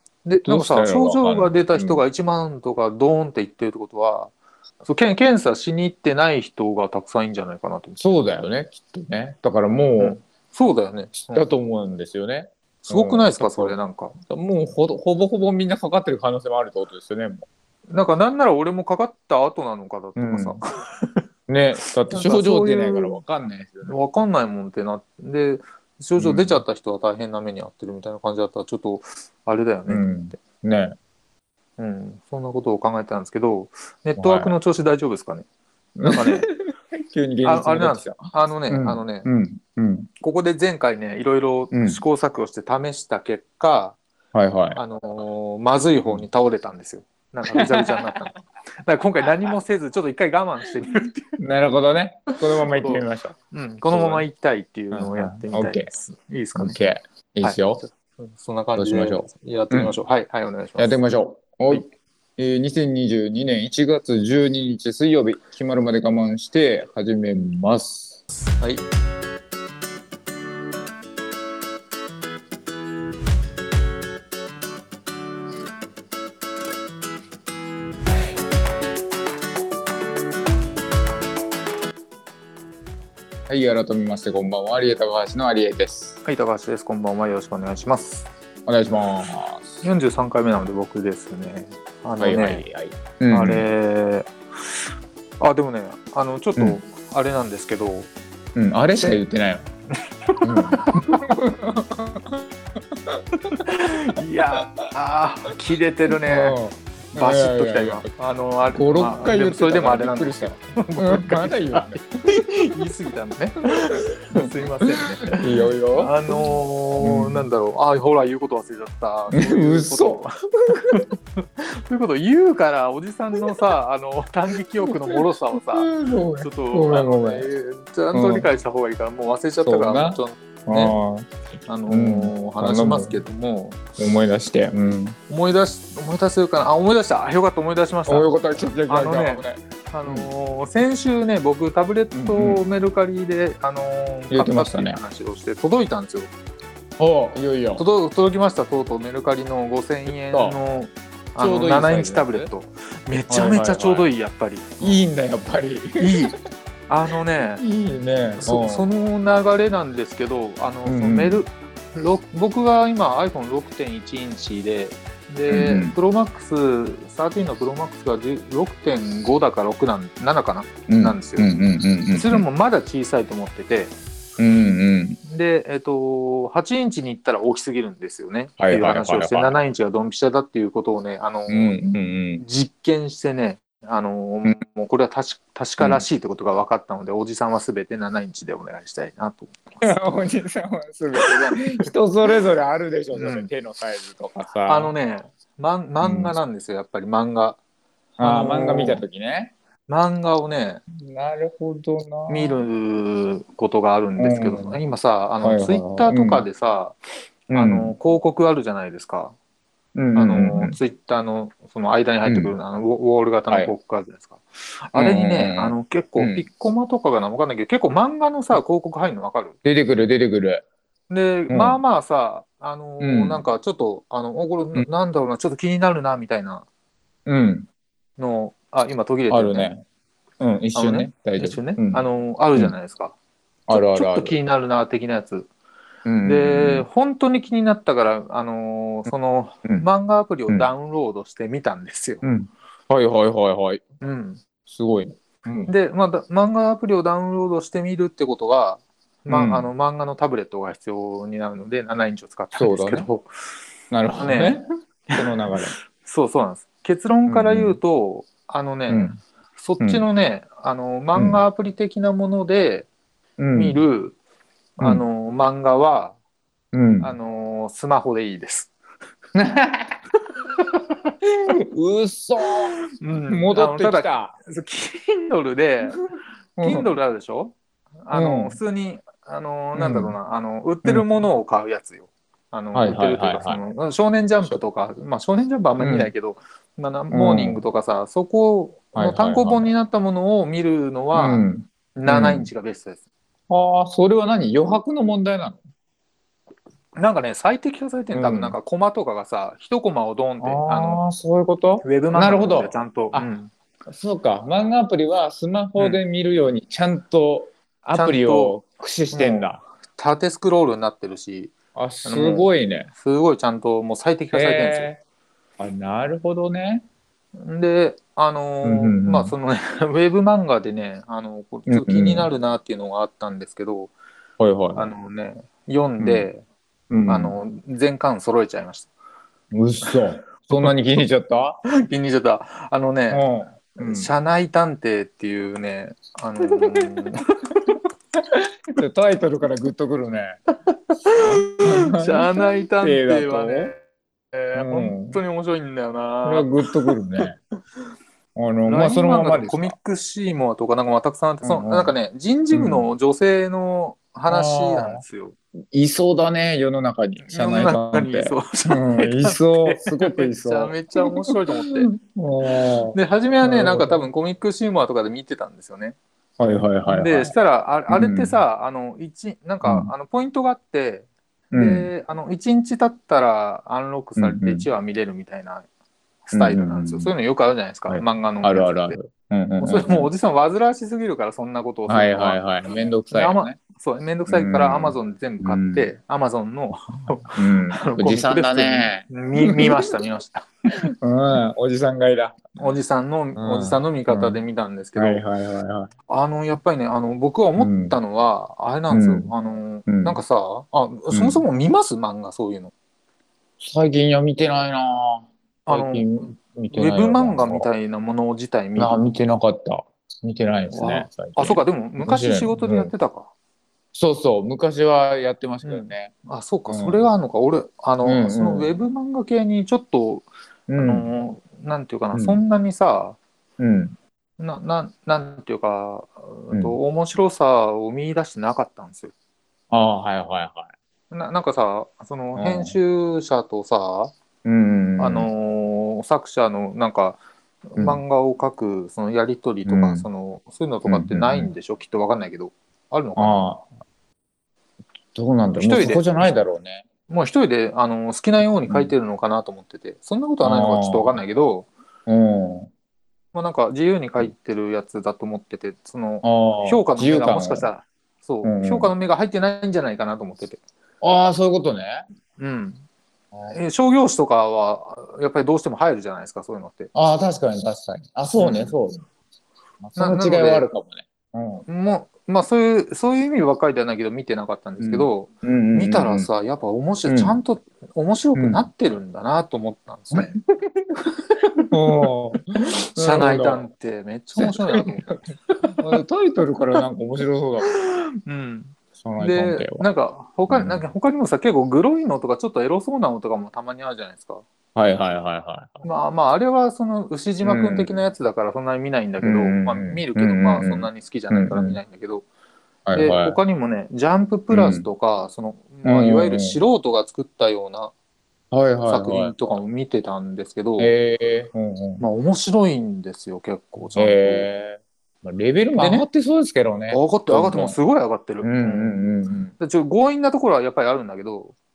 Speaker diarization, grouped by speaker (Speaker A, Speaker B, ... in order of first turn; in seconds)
Speaker A: 0.2-8.0, 10.0-11.4, 12.9-14.2, 17.9-21.2, 21.8-23.2, 23.9-30.4, 31.8-35.5, 36.1-36.5, 37.4-39.3, 40.2-44.0, 44.7-48.3, 48.8-51.4, 52.6-56.8, 57.4-61.0, 68.6-68.8, 86.2-88.3, 89.8-92.6, 93.3-94.8, 95.4-98.1, 100.3-101.2, 103.5-106.6, 107.1-120.3, 121.6-130.9, 131.7-133.8, 135.3-138.3, 138.9-146.3, 147.8-155.1, 156.0-156.3, 156.9-157.6, 158.4-171.5, 172.1-173.9, 175.3-181.8, 182.4-189.9, 191.2-191.6, 193.1-193.5, 194.6-197.6, 198.2-199.0, 199.9-200.8, 202.3-207.0, 207.5-209.3, 210.1-219.6, 221.1-226.6, 228.2-229.7, 230.8-233.2, 233.7-235.5, 236.2-242.2, 244.0-244.4, 245.7-253.3, 254.2-254.6, 255.9-262.9, 263.6-264.1, 264.8-266.1, 267.0-268.7, 270.2-271.1, 273.0-275.9, 276.6-291.4, 291.9-293.0, 297.0-301.0, 301.8-303.5, 305.8-306.0, 307.9-308.6, 309.1-314.9, 317.4-323.9, 324.8-326.4, 327.1-328.9, 331.7-337.8, 340.7-347.2, 348.6-355.3, 357.3-361.9, 362.4-366.0, 366.9-375.6, 376.3-379.0, 379.6-382.4, 383.1-390.5, 392.6-395.2, 396.1-402.7, 405.7-406.1, 406.7-409.0, 410.7-413.3, 415.6-423.2, 424.4-429.1, 431.1-434.1, 435.0-437.2, 437.7-443.4, 445.5-446.3, 447.1-451.7, 453.3-460.6, 462.4-462.8, 463.5-466.9, 468.4-468.7, 469.9-470.7, 471.7-480.4, 482.9-485.2, 487.6-494.4, 495.8-502.2, 502.9-507.9, 508.9-510.9, 512.0-514.5, 515.8-516.1, 516.9-519.0, 519.6-521.5
Speaker B: 0.4-2.0, 8.0-10.2, 11.3-17.4, 20.2-20.6, 21.5-23.9, 26.2-26.6, 29.9-30.9, 34.2-34.6, 36.0-36.5, 37.1-40.1, 41.7-42.0, 44.3-44.8, 47.5-48.2, 51.4-53.4, 53.9-54.2, 54.9-55.9, 56.6-57.8, 58.8-59.9, 60.8-61.9, 62.4-68.2, 83.5-86.2, 88.7-89.8, 92.2-93.7, 98.5-99.7, 100.4-102.3, 106.3-108.1, 108.7-112.1, 115.2-116.1, 117.0-117.5, 119.3-120.9, 124.9-125.2, 125.7-127.5, 128.1-128.5, 129.6-131.3, 131.9-133.2, 134.0-135.2, 138.1-140.3, 142.1-142.6, 144.3-145.0, 147.0-147.8, 150.1-150.6, 151.4-152.5, 153.3-154.1, 154.8-156.3, 157.6-158.9, 160.9-161.4, 165.5-165.9, 170.9-172.4, 174.4-175.2, 178.6-179.6, 181.5-182.4, 185.8-186.1, 189.8-194.9, 196.0-196.3, 198.2-199.5, 200.9-202.6, 204.2-204.8, 205.4-206.4, 207.5-207.9, 209.9-210.8, 212.2-212.6, 214.9-216.4, 219.6-220.6, 221.5-221.8, 223.0-223.4, 227.2-227.7, 229.3-229.8, 230.4-232.0, 233.7-234.4, 236.1-236.9, 242.2-243.8, 244.7-245.7, 249.3-249.7, 252.5-253.1, 253.9-254.6, 255.1-255.8, 257.3-257.8, 258.9-259.2, 259.8-260.1, 261.1-261.4, 263.4-263.8, 266.7-267.1, 269.3-270.0, 271.5-272.7, 273.2-274.4, 276.6-276.9, 278.1-278.6, 279.8-280.2, 282.7-283.6, 285.8-286.1, 287.1-287.6, 288.9-289.7, 291.1-292.5, 293.5-295.6, 298.1-298.6, 300.4-303.3, 303.9-309.6, 311.8-312.9, 314.3-315.0, 315.6-316.8, 318.6-319.3, 321.7-322.3, 324.4-324.9, 326.0-326.3, 326.9-327.3, 329.5-331.6, 333.1-334.1, 338.4-340.4, 341.2-343.7, 344.6-345.2, 346.2-347.4, 348.3-349.8, 351.4-351.9, 352.5-352.9, 354.3-355.0, 355.7-364.0, 366.4-367.3, 367.9-368.4, 369.6-369.9, 371.5-371.9, 374.2-374.7, 376.3-377.1, 377.9-380.1, 381.9-383.6, 384.3-385.9, 387.3-389.9, 391.0-392.6, 393.4-394.4, 394.9-395.9, 397.6-398.0, 398.9-399.3, 399.9-400.2, 401.1-401.4, 403.6-407.7, 408.8-412.9, 413.9-416.1, 416.7-417.1, 418.0-418.7, 420.7-421.1, 422.1-422.4, 423.6-424.0, 426.5-426.8, 429.7-430.7, 432.3-432.8, 434.4-435.3, 439.7-440.1, 440.9-441.5, 443.2-443.6, 445.1-446.9, 448.7-448.9, 450.4-451.2, 452.1-452.7, 456.2-457.7, 458.4-458.9, 461.0-462.1, 463.3-463.6, 466.9-469.0, 469.8-471.7, 474.8-476.3, 477.1-477.4, 478.4-478.7, 481.7-482.4, 482.9-483.7, 484.4-484.9, 485.8-487.7, 489.0-489.9, 490.5-490.9, 494.7-495.9, 497.4-498.0, 499.2-501.8, 502.9-503.4, 504.5-504.9, 505.8-506.6, 508.5-509.3, 510.8-512.0, 514.0-517.8, 518.4-519.5